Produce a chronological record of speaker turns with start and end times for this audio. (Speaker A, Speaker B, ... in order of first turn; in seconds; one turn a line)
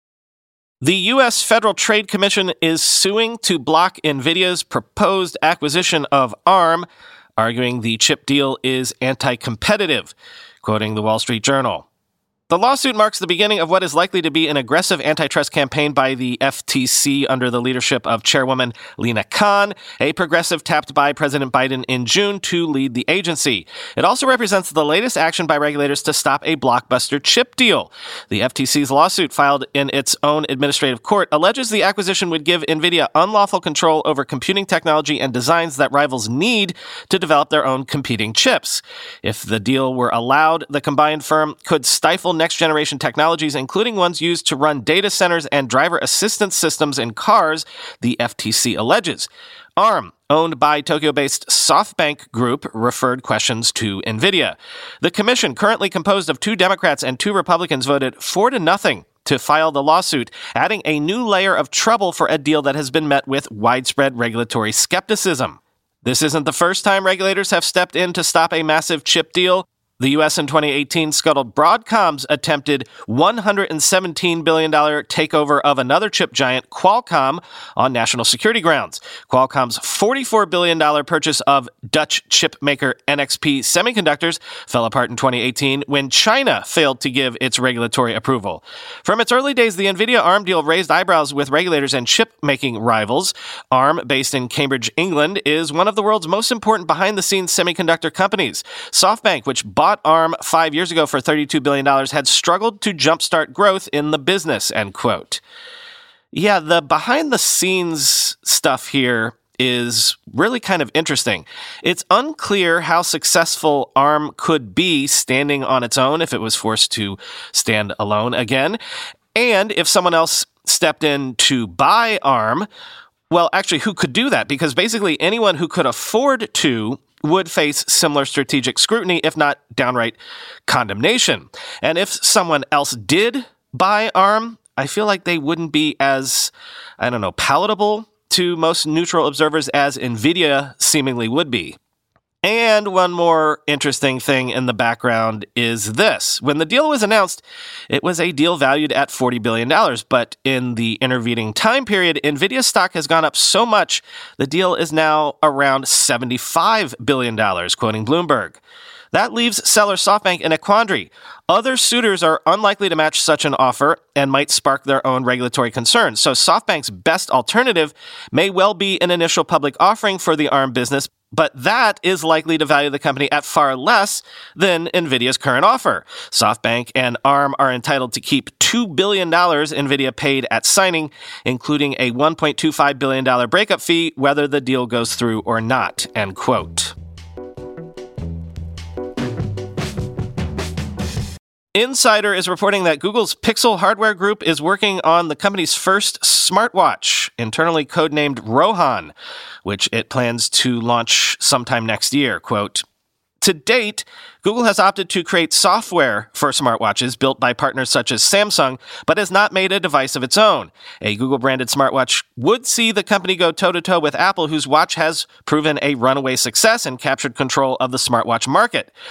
Speaker A: 0.8-6.8
Speaker A: 7.4-11.9
Speaker A: 12.5-105.4
Speaker A: 106.3-118.8
Speaker A: 119.3-122.7
Speaker A: 123.3-141.8
Speaker A: 142.4-158.6
Speaker A: 159.1-186.9
Speaker A: 191.8-199.1
Speaker A: 199.6-202.8
Speaker A: 203.4-218.9